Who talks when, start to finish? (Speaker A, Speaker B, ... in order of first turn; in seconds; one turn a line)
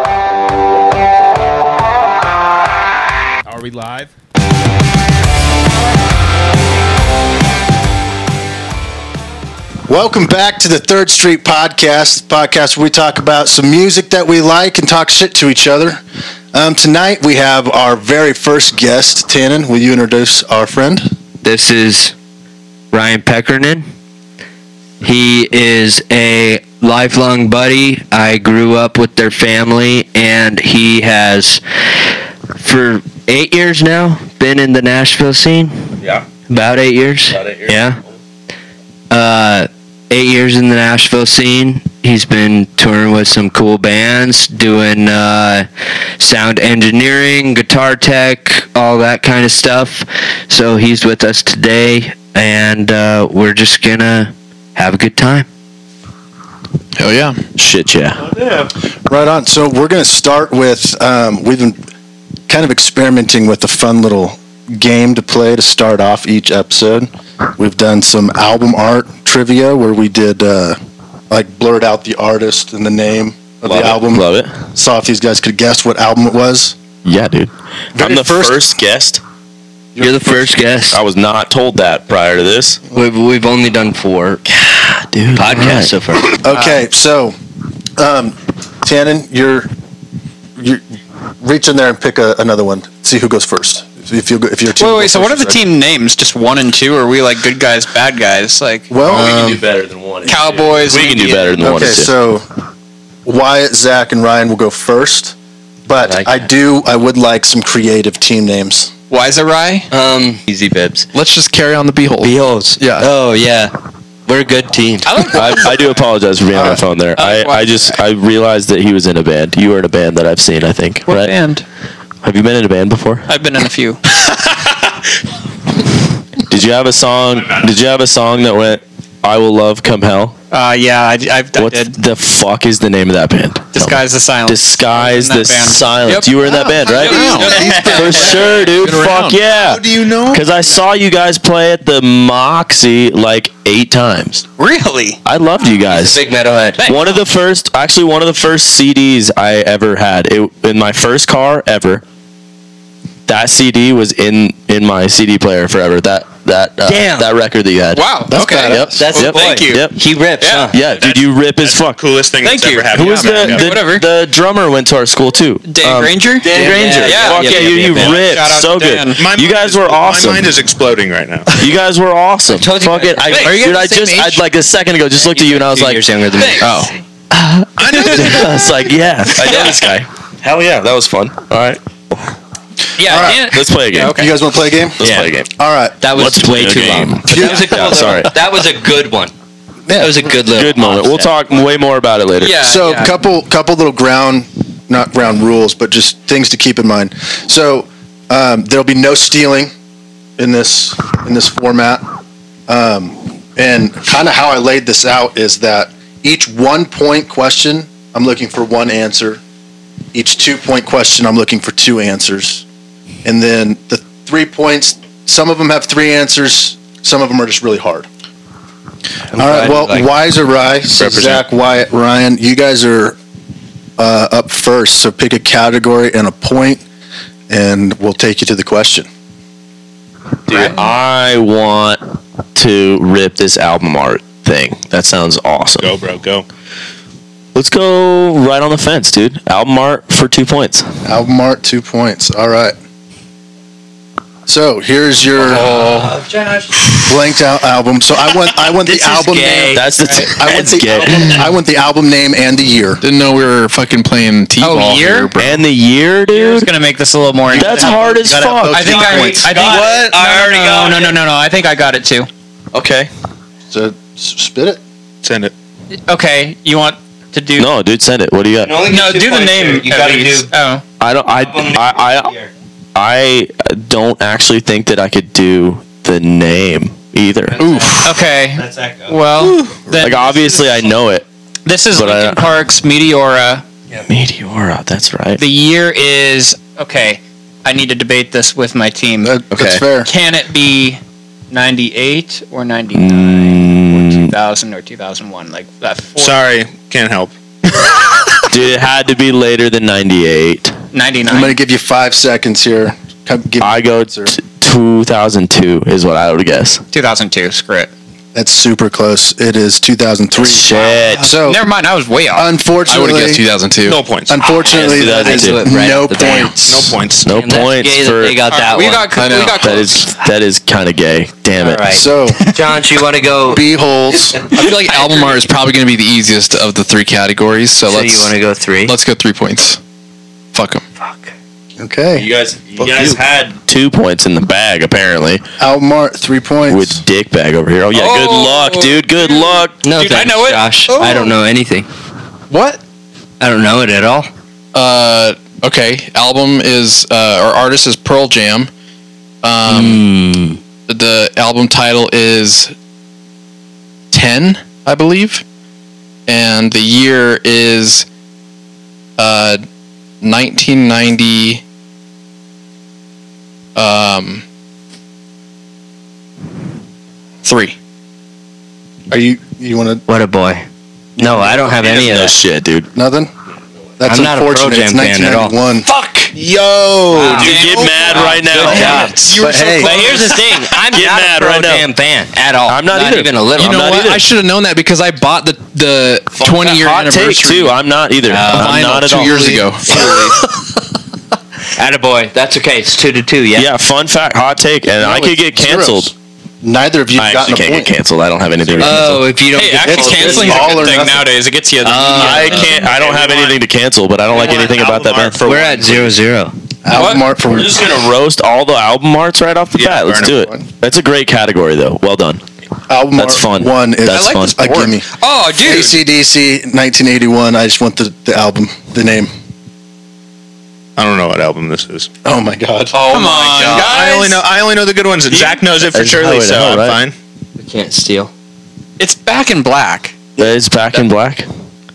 Speaker A: 3.5-4.1
Speaker B: 9.9-16.0
Speaker B: 16.5-21.1
Speaker C: 21.4-22.1
Speaker C: 22.9-23.9
Speaker C: 25.0-31.6
Speaker C: 32.6-35.9
Speaker C: 36.5-38.0
Speaker D: 37.3-38.1
Speaker C: 39.1-45.7
Speaker C: 46.2-55.5
Speaker E: 57.0-57.4
Speaker D: 57.6-58.2
Speaker C: 58.2-58.7
Speaker B: 59.1-61.8
Speaker B: 62.5-70.8
Speaker B: 71.3-76.8
Speaker D: 73.6-74.5
Speaker D: 77.0-79.2
Speaker B: 78.0-78.6
Speaker B: 80.0-80.5
Speaker C: 80.0-81.0
Speaker D: 80.9-82.8
Speaker C: 82.9-84.4
Speaker D: 84.5-85.9
Speaker C: 85.4-86.4
Speaker B: 86.4-87.3
Speaker F: 86.5-86.8
Speaker B: 88.0-89.7
Speaker B: 90.6-90.8
Speaker B: 91.4-95.7
Speaker F: 94.8-98.9
Speaker B: 98.9-99.4
Speaker D: 99.0-102.1
Speaker C: 99.0-99.6
Speaker F: 100.2-101.6
Speaker B: 101.6-102.5
Speaker B: 103.2-105.3
Speaker B: 105.9-108.9
Speaker C: 106.0-106.5
Speaker F: 109.1-109.9
Speaker C: 109.9-111.1
Speaker E: 111.1-113.1
Speaker C: 112.2-113.7
Speaker C: 114.3-115.3
Speaker F: 115.1-116.0
Speaker D: 115.3-121.3
Speaker F: 117.2-118.0
Speaker F: 121.1-121.6
Speaker D: 122.2-123.3
Speaker F: 123.3-124.0
Speaker D: 126.5-130.4
Speaker F: 130.5-132.0
Speaker D: 131.6-144.4
Speaker F: 133.7-138.6
Speaker E: 137.0-139.4
Speaker C: 137.1-138.4
Speaker A: 139.5-140.4
Speaker F: 144.6-145.2
Speaker D: 145.2-146.2
Speaker C: 145.9-146.8
Speaker F: 146.8-147.2
Speaker D: 146.8-152.0
Speaker D: 153.3-158.1
Speaker C: 156.8-157.3
Speaker F: 157.9-159.9
Speaker B: 158.3-158.9
Speaker E: 158.3-159.0
Speaker D: 158.7-159.9
Speaker C: 159.0-160.8
Speaker F: 160.4-160.8
Speaker D: 160.7-162.0
Speaker A: 160.9-163.8
Speaker F: 162.4-164.1
Speaker D: 162.9-170.5
Speaker F: 165.7-169.3
Speaker C: 166.4-168.3
Speaker A: 169.2-171.7
Speaker D: 171.5-176.0
Speaker C: 172.5-173.6
Speaker F: 173.3-174.2
Speaker E: 173.3-174.3
Speaker C: 175.2-176.9
Speaker F: 176.3-177.0
Speaker E: 176.6-176.9
Speaker D: 177.3-182.2
Speaker A: 177.8-178.5
Speaker F: 178.1-178.4
Speaker F: 179.5-179.7
Speaker F: 183.0-184.3
Speaker B: 183.0-183.4
Speaker D: 183.1-184.2
Speaker B: 184.0-185.0
Speaker D: 185.0-185.5
Speaker C: 185.0-185.3
Speaker B: 185.6-186.0
Speaker C: 186.0-189.3
Speaker D: 186.2-188.3
Speaker B: 187.3-187.8
Speaker B: 189.9-190.2
Speaker C: 190.0-191.3
Speaker D: 190.5-192.6
Speaker F: 192.4-193.1
Speaker B: 192.6-199.7
Speaker B: 200.4-202.1
Speaker B: 202.7-209.4
Speaker B: 210.1-212.6
Speaker B: 213.2-218.1
Speaker C: 219.3-220.1
Speaker B: 219.4-223.2
Speaker A: 220.9-221.4
Speaker B: 224.0-226.8
Speaker B: 227.5-229.1
Speaker D: 230.5-232.0
Speaker F: 230.5-230.8
Speaker D: 232.6-235.9
Speaker A: 235.8-236.4
Speaker D: 237.5-240.9
Speaker B: 241.1-242.8
Speaker B: 244.5-245.7
Speaker F: 245.4-246.2
Speaker C: 245.4-247.1
Speaker B: 247.1-253.0
Speaker C: 248.8-249.9
Speaker D: 249.7-251.4
Speaker C: 250.9-251.4
Speaker E: 253.0-255.6
Speaker F: 254.6-255.4
Speaker D: 255.4-256.7
Speaker F: 256.3-258.0
Speaker D: 257.5-259.0
Speaker B: 257.5-259.4
Speaker F: 258.7-262.3
Speaker C: 258.9-261.2
Speaker A: 259.5-259.8
Speaker D: 262.7-263.1
Speaker B: 263.7-264.8
Speaker A: 265.2-265.5
Speaker F: 266.0-267.7
Speaker D: 267.6-268.8
Speaker C: 268.6-270.5
Speaker F: 268.8-270.8
Speaker D: 271.0-272.3
Speaker C: 271.4-272.5
Speaker D: 272.9-277.6
Speaker C: 277.5-279.2
Speaker E: 277.6-278.2
Speaker F: 278.0-280.9
Speaker D: 279.9-281.3
Speaker F: 281.7-283.6
Speaker D: 281.9-282.5
Speaker D: 284.1-285.4
Speaker F: 285.4-289.3
Speaker B: 289.2-290.1
Speaker D: 289.5-289.8
Speaker F: 290.0-296.4
Speaker D: 292.9-294.3
Speaker A: 296.2-297.3
Speaker D: 298.5-300.8
Speaker F: 300.9-301.6
Speaker B: 301.3-304.3
Speaker D: 303.6-306.8
Speaker F: 306.9-307.9
Speaker B: 308.4-311.6
Speaker D: 310.4-311.3
Speaker F: 311.2-312.5
Speaker B: 312.3-313.4
Speaker E: 312.9-314.1
Speaker A: 313.9-314.4
Speaker B: 314.3-317.0
Speaker C: 314.4-316.5
Speaker D: 314.8-315.7
Speaker A: 316.6-317.3
Speaker D: 317.2-318.4
Speaker C: 317.3-319.4
Speaker F: 318.5-320.1
Speaker E: 319.1-319.8
Speaker D: 319.6-321.9
Speaker C: 321.6-323.6
Speaker B: 321.9-322.4
Speaker B: 323.5-324.4
Speaker E: 324.5-328.3
Speaker F: 324.6-325.4
Speaker C: 327.9-329.0
Speaker E: 328.9-329.8
Speaker E: 330.5-330.8
Speaker C: 331.0-331.3
Speaker B: 331.8-332.3
Speaker D: 332.1-335.4
Speaker B: 332.8-333.2
Speaker B: 335.6-337.0
Speaker D: 336.7-339.8
Speaker F: 337.9-341.4
Speaker C: 339.8-341.9
Speaker E: 342.5-342.8
Speaker C: 343.4-344.3
Speaker E: 344.7-348.7
Speaker E: 349.4-350.0
Speaker C: 349.7-350.6
Speaker E: 350.9-352.8
Speaker E: 354.1-355.4
Speaker E: 356.3-358.1
Speaker E: 359.2-359.6
Speaker E: 360.2-361.6
Speaker E: 363.8-364.4
Speaker E: 367.4-367.8
Speaker B: 369.1-370.0
Speaker C: 370.1-370.6
Speaker C: 371.2-372.3
Speaker D: 371.5-372.9
Speaker B: 372.9-373.3
Speaker B: 374.0-375.9
Speaker C: 374.1-376.3
Speaker A: 376.4-378.3
Speaker F: 377.1-380.3
Speaker D: 377.2-379.1
Speaker E: 378.6-379.0
Speaker C: 378.6-383.8
Speaker B: 379.3-380.0
Speaker A: 379.9-380.7
Speaker D: 380.9-381.9
Speaker D: 382.7-384.2
Speaker E: 383.6-387.7
Speaker D: 386.3-390.0
Speaker C: 388.3-388.8
Speaker E: 388.4-390.4
Speaker C: 389.9-390.4
Speaker C: 391.8-393.7
Speaker D: 393.6-396.1
Speaker B: 395.0-397.9
Speaker D: 397.2-399.3
Speaker C: 398.8-401.2
Speaker F: 399.5-402.9
Speaker B: 399.9-401.1
Speaker D: 400.3-400.6
Speaker C: 401.8-402.8
Speaker D: 402.1-406.1
Speaker A: 402.7-403.6
Speaker A: 404.3-405.6
Speaker C: 405.4-406.5
Speaker B: 406.9-407.8
Speaker F: 406.9-407.2
Speaker D: 407.4-412.4
Speaker A: 409.8-410.3
Speaker B: 410.2-410.6
Speaker B: 412.9-415.1
Speaker D: 413.2-414.7
Speaker F: 414.1-416.0
Speaker B: 415.6-419.3
Speaker A: 421.0-422.1
Speaker B: 422.2-423.1
Speaker F: 422.9-424.4
Speaker C: 423.0-423.9
Speaker A: 423.5-427.1
Speaker F: 425.3-425.6
Speaker D: 425.8-427.0
Speaker C: 427.6-428.3
Speaker F: 429.0-430.2
Speaker D: 430.4-431.5